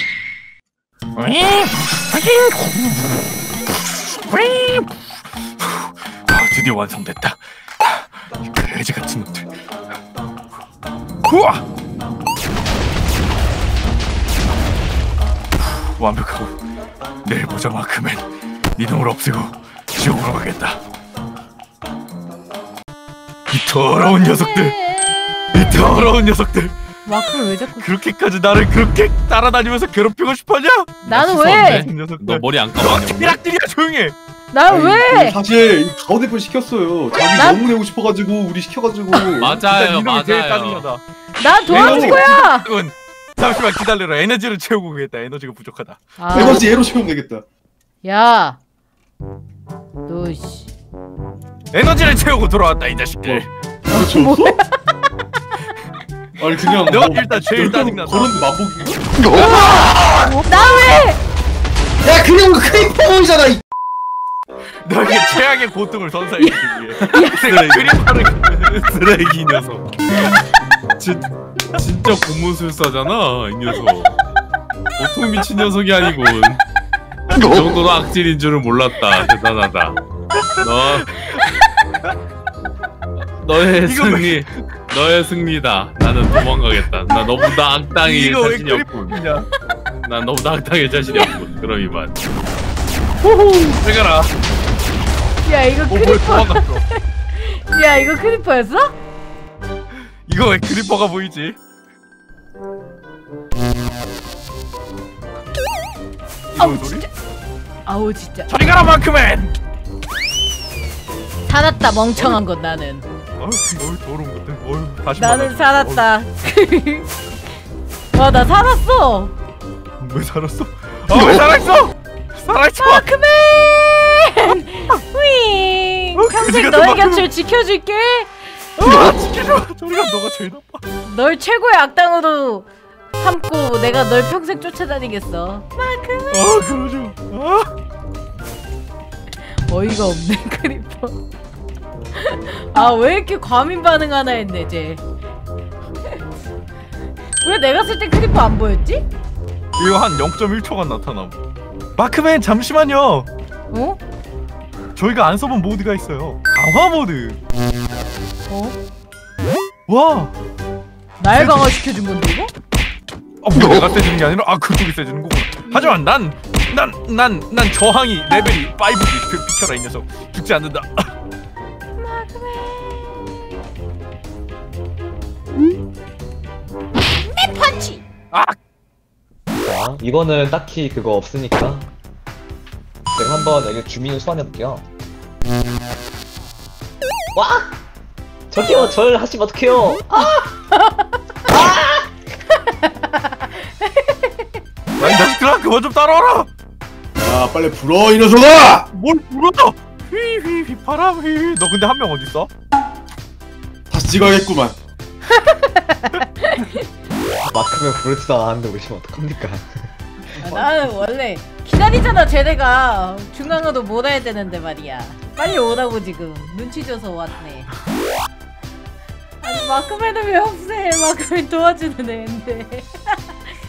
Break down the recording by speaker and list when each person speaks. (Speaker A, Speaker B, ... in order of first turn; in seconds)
Speaker A: 1.1-5.0, 5.6-9.6, 11.2-11.6, 16.0-16.5, 17.2-20.8, 23.5-24.8, 25.5-26.8, 27.8-34.1, 39.6-41.0, 41.7-46.5, 51.7-53.5, 56.8-58.5, 59.2-60.0, 64.8-68.8, 80.3-81.5, 83.8-84.7, 88.0-89.5, 93.4-94.3, 95.9-96.8, 100.3-101.5, 106.5-107.0, 108.5-109.5, 113.4-116.1, 120.0-123.1, 126.2-127.3, 128.8-130.8, 136.3-137.7, 149.8-151.4, 152.0-153.3, 154.9-157.4, 159.9-160.3, 161.3-161.7, 163.4-171.1, 195.0-196.5, 198.9-202.5
Speaker B: 24.0-25.9, 27.0-27.9, 31.0-31.9, 34.5-35.4, 37.4-37.6, 41.4-42.7, 46.2-46.7, 48.0-48.6, 50.0-50.7, 53.9-54.8, 60.3-61.2, 66.4-67.5, 95.4-99.0, 106.5-107.1, 107.8-108.5, 111.5-113.1, 115.2-117.1, 118.1-119.3, 122.8-128.4, 131.0-136.5, 139.6-141.2, 142.1-145.0, 147.4-149.0, 153.7-154.0, 158.5-158.8, 161.2-162.5, 165.7-166.0, 172.0-173.2, 177.1-178.0, 190.7-191.2, 192.6-194.5, 205.3-206.8, 210.4-217.7, 219.4-223.2
Speaker C: 31.1-33.4, 39.4-40.9, 67.4-69.9, 71.7-74.2, 75.0-76.6, 77.3-80.0, 80.6-81.2, 83.4-89.2, 90.0-92.2
Speaker D: 34.7-39.6, 41.7-42.2, 46.3-47.5, 53.2-54.6, 56.4-59.2, 62.0-63.6, 67.0-67.3, 197.2-198.9, 203.9-204.8, 210.4-210.8
Speaker E: 179.5-181.9, 183.1-184.8, 187.3-187.8, 188.5-190.6, 191.5-192.1, 207.4-209.7